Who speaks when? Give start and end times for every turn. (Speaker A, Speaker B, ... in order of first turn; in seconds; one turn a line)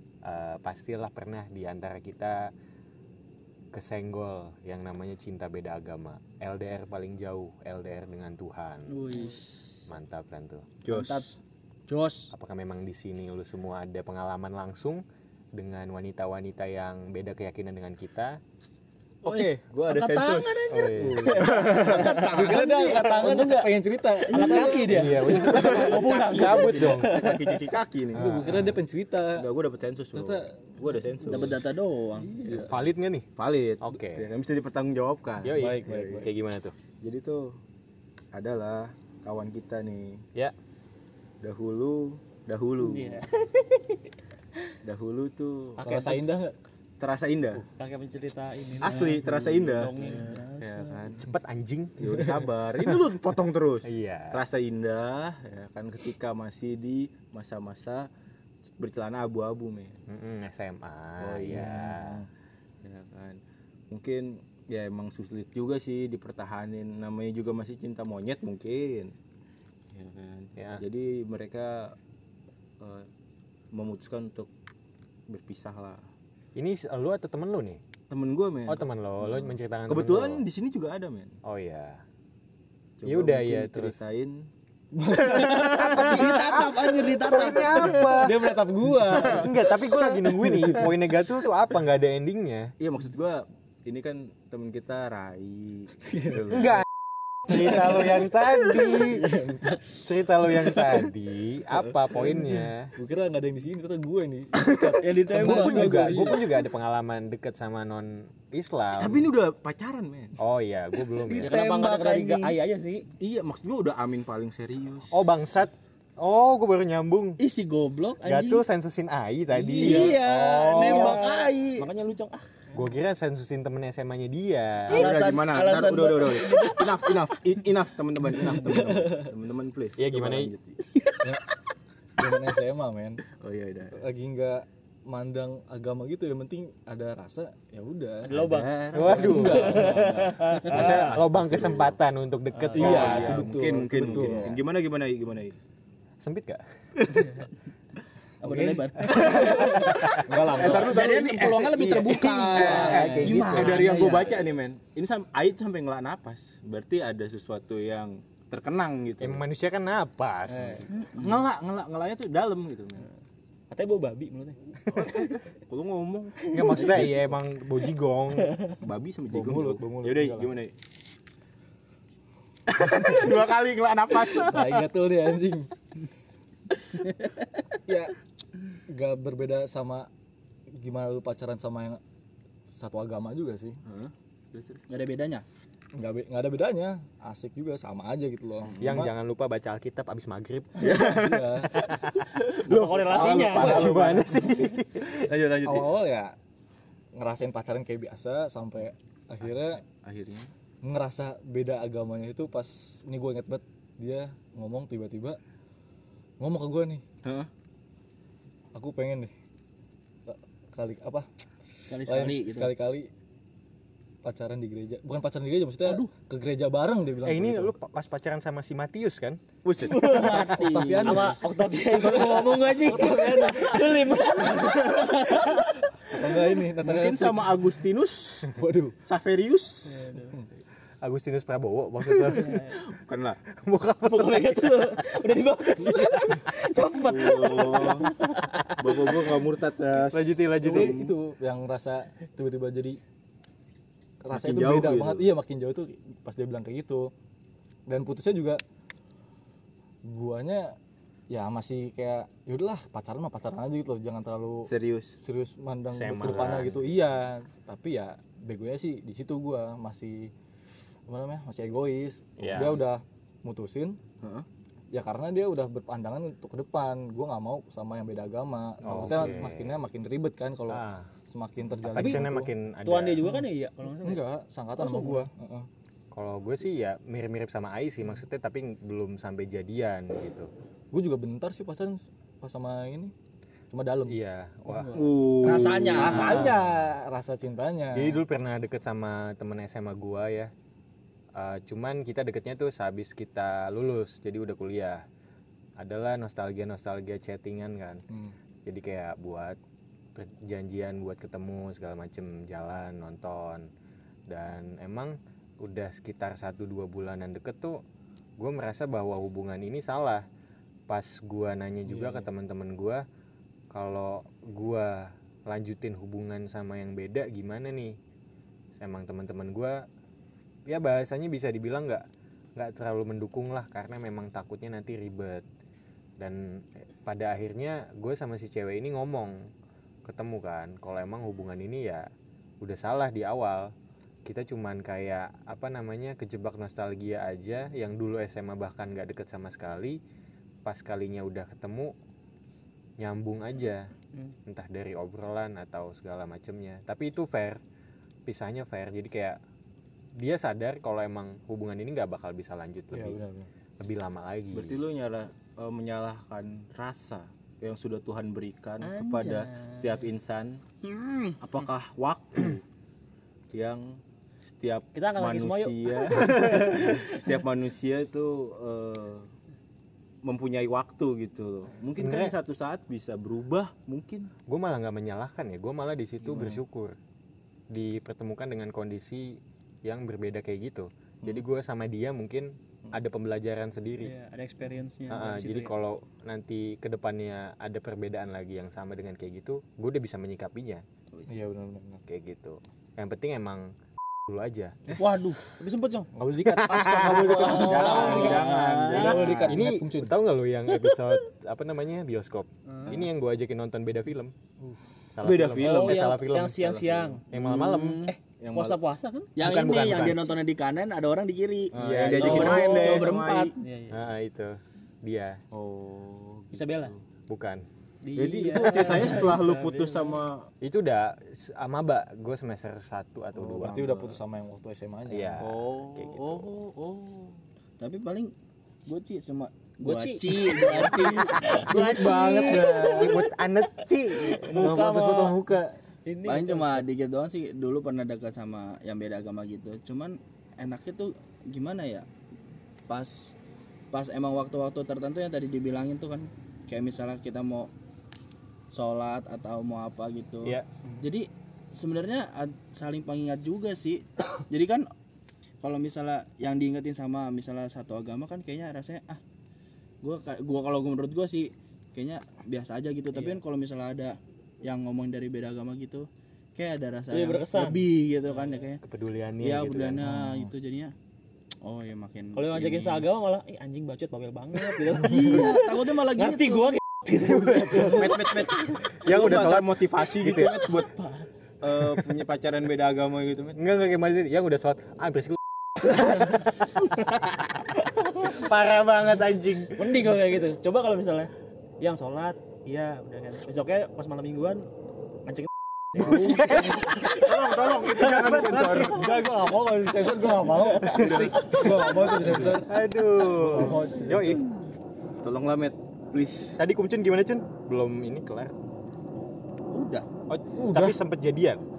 Speaker A: 0.2-2.5
Speaker A: 3.7-9.0
Speaker B: 8.9-9.6
Speaker A: 9.9-10.7
Speaker C: 10.8-11.3
Speaker B: 10.9-11.3
Speaker B: 11.9-12.3
Speaker A: 12.3-15.0
Speaker A: 15.5-18.4
Speaker C: 19.2-22.4
Speaker B: 19.2-23.4
Speaker A: 20.7-21.5
Speaker D: 21.2-21.5
Speaker D: 22.1-25.3
Speaker E: 23.0-23.7
Speaker E: 24.3-27.6
Speaker B: 24.3-26.7
Speaker A: 24.9-27.1
Speaker C: 25.9-28.6
Speaker D: 28.1-29.5
Speaker A: 28.1-28.8
Speaker C: 29.3-31.7
Speaker D: 30.1-30.7
Speaker B: 31.2-32.4
Speaker D: 32.2-32.7
Speaker C: 32.4-32.7
Speaker A: 32.7-33.3
Speaker C: 33.4-36.2
Speaker A: 33.8-34.3
Speaker A: 35.4-36.7
Speaker D: 35.5-36.3
Speaker C: 37.0-37.6
Speaker C: 38.3-40.2
Speaker C: 41.4-43.2
Speaker E: 42.8-44.0
Speaker C: 44.8-45.8
Speaker E: 45.8-46.3
Speaker D: 45.8-46.5
Speaker C: 47.0-47.6
Speaker E: 47.6-51.2
Speaker C: 48.8-51.3
Speaker A: 51.2-52.3
Speaker C: 52.0-58.1
Speaker A: 53.8-54.4
Speaker C: 58.8-60.0
Speaker A: 60.1-62.2
Speaker C: 61.2-61.8
Speaker D: 61.5-62.3
Speaker C: 62.8-69.1
Speaker C: 69.9-72.0
Speaker A: 70.6-70.8
Speaker C: 72.8-73.1
Speaker C: 73.7-74.5
Speaker C: 75.3-76.0
Speaker A: 76.5-77.8
Speaker C: 78.1-81.4
Speaker A: 78.7-80.4
Speaker A: 81.4-82.0
Speaker C: 83.0-84.5
Speaker A: 83.0-84.0
Speaker D: 84.9-86.6
Speaker B: 85.2-88.1
Speaker A: 85.5-88.5
Speaker D: 88.1-89.6
Speaker A: 89.1-92.7
Speaker C: 92.8-96.8
Speaker D: 96.2-96.6
Speaker A: 96.5-96.8
Speaker A: 97.4-102.9
Speaker D: 98.9-99.8
Speaker D: 102.1-106.5
Speaker B: 104.7-106.3
Speaker A: 105.3-109.3
Speaker C: 109.0-110.3
Speaker A: 110.4-111.5
Speaker B: 111.2-112.5
Speaker E: 111.4-113.1
Speaker C: 113.2-115.1
Speaker A: 115.1-117.4
Speaker B: 117.4-118.6
Speaker A: 118.2-121.2
Speaker B: 119.7-121.8
Speaker E: 119.8-122.5
Speaker A: 122.7-125.1
Speaker B: 124.9-127.2
Speaker C: 124.9-131.1
Speaker D: 128.5-129.3
Speaker A: 130.0-130.5
Speaker D: 132.2-133.2
Speaker C: 133.3-134.0
Speaker D: 133.9-138.4
Speaker E: 138.2-141.0
Speaker C: 138.3-142.0
Speaker A: 138.9-139.9
Speaker D: 139.0-140.5
Speaker A: 140.7-144.5
Speaker E: 142.5-143.2
Speaker D: 142.7-144.6
Speaker C: 142.7-145.6
Speaker A: 146.2-146.6
Speaker C: 147.0-147.3
Speaker D: 148.4-151.0
Speaker B: 148.4-154.4
Speaker A: 149.1-150.4
Speaker C: 149.1-159.4
Speaker A: 151.9-153.8
Speaker D: 152.7-153.6
Speaker A: 159.2-160.9
Speaker E: 160.5-160.9
Speaker B: 160.9-161.4
Speaker C: 161.1-163.1
Speaker E: 163.7-165.3
Speaker C: 164.9-167.3
Speaker A: 166.5-168.5
Speaker E: 166.5-166.9
Speaker E: 168.4-168.7
Speaker C: 168.8-170.7
Speaker D: 169.3-170.5
Speaker C: 172.7-174.8
Speaker D: 174.4-175.7
Speaker D: 177.9-178.1
Speaker D: 178.9-180.1
Speaker D: 180.7-182.0
Speaker D: 182.7-183.8
Speaker C: 183.8-184.8
Speaker B: 184.9-185.4
Speaker D: 185.9-189.1
Speaker C: 188.6-189.0
Speaker A: 188.8-191.0
Speaker C: 190.8-195.9
Speaker D: 190.9-191.7
Speaker A: 191.9-192.2
Speaker E: 192.5-194.0
Speaker A: 193.1-195.3
Speaker D: 193.5-194.2
Speaker D: 195.6-196.3
Speaker D: 197.2-199.8
Speaker C: 199.9-200.5
Speaker D: 200.8-205.4
Speaker D: 206.4-207.0
Speaker C: 207.2-207.5
Speaker D: 208.7-209.3
Speaker D: 210.2-211.3
Speaker B: 211.9-212.7
Speaker D: 211.9-213.1
Speaker D: 214.2-217.7
Speaker A: 217.2-219.4
Speaker C: 219.6-220.2
Speaker E: 219.8-225.8
Speaker B: 220.1-221.3
Speaker D: 220.6-224.4
Speaker D: 226.0-227.6
Speaker C: 226.8-228.5
Speaker D: 228.5-228.9
Speaker C: 229.0-230.1
Speaker E: 229.8-230.4
Speaker A: 231.0-232.7
Speaker E: 232.2-232.8
Speaker C: 232.8-233.4
Speaker A: 233.5-235.0
Speaker E: 234.0-239.1
Speaker C: 237.1-238.1
Speaker C: 238.8-241.1
Speaker A: 240.1-241.0
Speaker D: 240.6-243.0
Speaker D: 244.2-247.1
Speaker C: 244.3-245.3
Speaker D: 247.9-248.6
Speaker D: 250.0-250.8
Speaker D: 251.3-254.7
Speaker C: 254.7-255.1
Speaker D: 255.2-260.3
Speaker A: 255.9-256.9
Speaker D: 261.1-264.0
Speaker A: 262.4-262.8
Speaker C: 264.2-264.5
Speaker D: 264.9-272.5
Speaker A: 268.8-269.8
Speaker A: 270.7-271.1
Speaker A: 271.8-273.2
Speaker E: 272.8-274.2
Speaker D: 274.0-275.7
Speaker E: 274.8-275.3
Speaker A: 276.1-280.5
Speaker D: 280.9-283.1
Speaker D: 283.7-284.2
Speaker A: 284.1-285.0
Speaker C: 284.9-286.5
Speaker B: 285.4-286.6
Speaker D: 285.9-288.2
Speaker A: 287.9-290.5
Speaker A: 291.3-295.0
Speaker A: 295.8-298.0
Speaker D: 298.1-298.3
Speaker A: 298.6-299.6
Speaker A: 300.1-303.7
Speaker A: 304.3-307.8
Speaker A: 308.4-310.2
Speaker A: 310.9-313.0
Speaker D: 311.9-312.3
Speaker A: 313.7-317.9
Speaker A: 318.8-319.8
Speaker A: 320.7-322.0
Speaker A: 322.6-325.4
Speaker A: 326.2-329.4
Speaker A: 330.0-332.1
Speaker A: 332.6-333.7
Speaker A: 334.2-340.0
Speaker A: 340.6-341.9
Speaker A: 343.0-343.9
Speaker A: 344.4-347.6
Speaker A: 348.2-349.4
Speaker A: 350.1-353.2
Speaker D: 352.9-353.5
Speaker A: 353.8-354.8
Speaker C: 354.5-360.6
Speaker E: 358.8-360.0
Speaker B: 360.9-361.3
Speaker C: 361.4-362.6
Speaker C: 363.5-369.3
Speaker E: 364.9-367.2
Speaker C: 370.2-374.3
Speaker A: 371.9-372.3
Speaker A: 374.5-376.9
Speaker D: 376.3-376.6
Speaker A: 377.7-384.1
Speaker E: 384.0-385.7
Speaker A: 385.1-390.8
Speaker D: 391.3-392.0
Speaker A: 392.1-393.7
Speaker A: 394.3-394.8
Speaker B: 394.9-395.4
Speaker E: 395.0-396.1
Speaker D: 396.1-398.2
Speaker A: 396.4-398.3
Speaker E: 396.7-399.5
Speaker B: 397.4-399.1
Speaker C: 397.6-399.5
Speaker D: 398.9-400.2
Speaker A: 399.4-404.3
Speaker E: 402.7-403.0
Speaker A: 405.1-406.6
Speaker C: 405.2-408.8
Speaker E: 405.6-407.2
Speaker A: 407.3-408.1
Speaker B: 407.6-408.1
Speaker E: 408.1-409.3
Speaker B: 409.4-413.5
Speaker A: 409.4-410.3
Speaker C: 411.7-413.5
Speaker A: 411.8-412.9
Speaker E: 412.2-414.1
Speaker A: 413.9-415.4
Speaker C: 415.5-417.0
Speaker E: 416.5-416.9
Speaker A: 417.3-417.6
Speaker E: 418.0-420.1
Speaker C: 418.1-420.5
Speaker A: 420.6-423.9
Speaker D: 423.4-425.5
Speaker C: 423.5-424.1
Speaker A: 425.1-426.5
Speaker C: 425.4-427.4
Speaker B: 427.8-428.3
Speaker B: 428.9-433.3
Speaker E: 429.8-431.7
Speaker A: 431.0-435.8
Speaker C: 432.3-432.6
Speaker E: 434.3-435.4
Speaker E: 436.1-436.8
Speaker B: 436.2-442.1
Speaker B: 442.9-443.3
Speaker B: 443.9-447.7
Speaker B: 448.7-454.9
Speaker B: 455.6-459.2
Speaker B: 460.0-468.8
Speaker E: 463.1-463.4
Speaker E: 467.1-468.6
Speaker A: 468.8-470.1
Speaker B: 469.4-470.9
Speaker D: 470.0-470.5
Speaker B: 471.6-473.1
Speaker E: 472.3-478.9
Speaker B: 474.7-476.8
Speaker A: 477.1-478.3
Speaker C: 477.9-480.9
Speaker A: 478.9-480.5
Speaker E: 480.2-481.3
Speaker C: 481.6-483.6
Speaker A: 483.6-490.0
Speaker E: 485.9-486.4
Speaker E: 489.8-494.7
Speaker D: 495.9-496.9
Speaker A: 495.9-498.7
Speaker E: 496.0-496.3
Speaker C: 496.7-499.1
Speaker D: 498.7-502.8
Speaker E: 500.5-502.1
Speaker C: 500.9-501.9
Speaker A: 502.2-504.4
Speaker D: 503.3-504.4
Speaker C: 505.2-506.6
Speaker A: 506.6-508.5
Speaker B: 509.7-510.1
Speaker A: 510.3-511.6
Speaker D: 510.6-511.0